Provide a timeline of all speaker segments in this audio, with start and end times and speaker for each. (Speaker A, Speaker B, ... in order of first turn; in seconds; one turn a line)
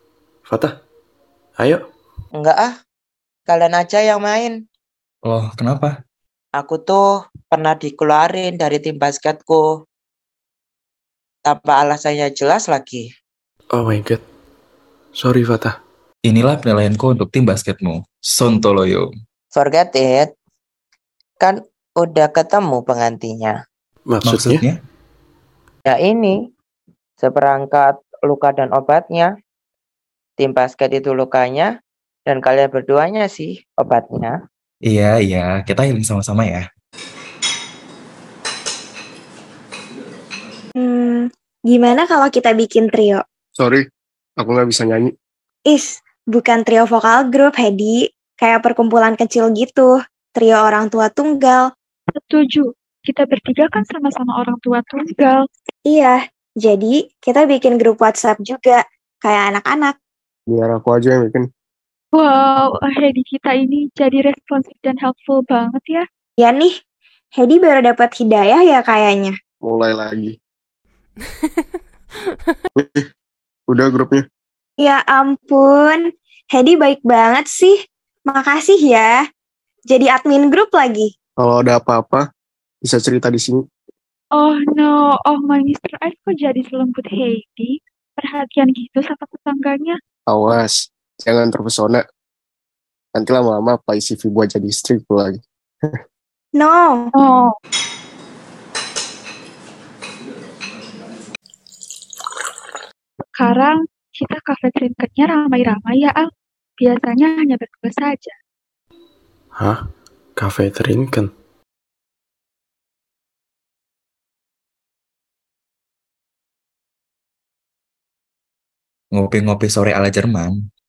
Speaker A: 0.5-0.8
Speaker A: 1.6-1.9
Speaker B: 2.3-2.7
Speaker B: 3.5-4.5
Speaker C: 5.2-5.9
Speaker B: 6.5-9.7
Speaker B: 11.4-13.1
Speaker A: 13.7-14.2
Speaker A: 15.1-15.8
Speaker C: 16.2-19.1
Speaker B: 19.5-20.3
Speaker B: 21.4-23.5
Speaker A: 24.1-24.6
Speaker C: 24.2-24.8
Speaker B: 25.9-26.4
Speaker B: 27.2-29.3
Speaker B: 30.4-31.7
Speaker B: 32.2-34.4
Speaker C: 34.8-36.6
Speaker D: 40.8-43.2
Speaker E: 43.6-43.8
Speaker E: 44.4-45.1
Speaker D: 45.7-51.7
Speaker F: 52.1-55.4
Speaker D: 55.9-60.0
Speaker E: 60.5-61.5
Speaker F: 62.1-66.0
Speaker D: 66.4-66.7
Speaker D: 67.3-69.3
Speaker E: 69.6-70.3
Speaker E: 72.8-73.1
Speaker E: 73.7-74.2
Speaker D: 74.8-77.8
Speaker D: 78.3-79.2
Speaker D: 79.9-81.1
Speaker E: 81.4-82.2
Speaker E: 82.8-83.6
Speaker F: 84.4-90.0
Speaker E: 90.3-92.0
Speaker E: 93.1-96.0
Speaker D: 96.6-97.1
Speaker F: 97.2-97.5
Speaker F: 103.3-108.3
Speaker A: 109.5-109.8
Speaker A: 110.3-111.3
Speaker C: 119.1-120.6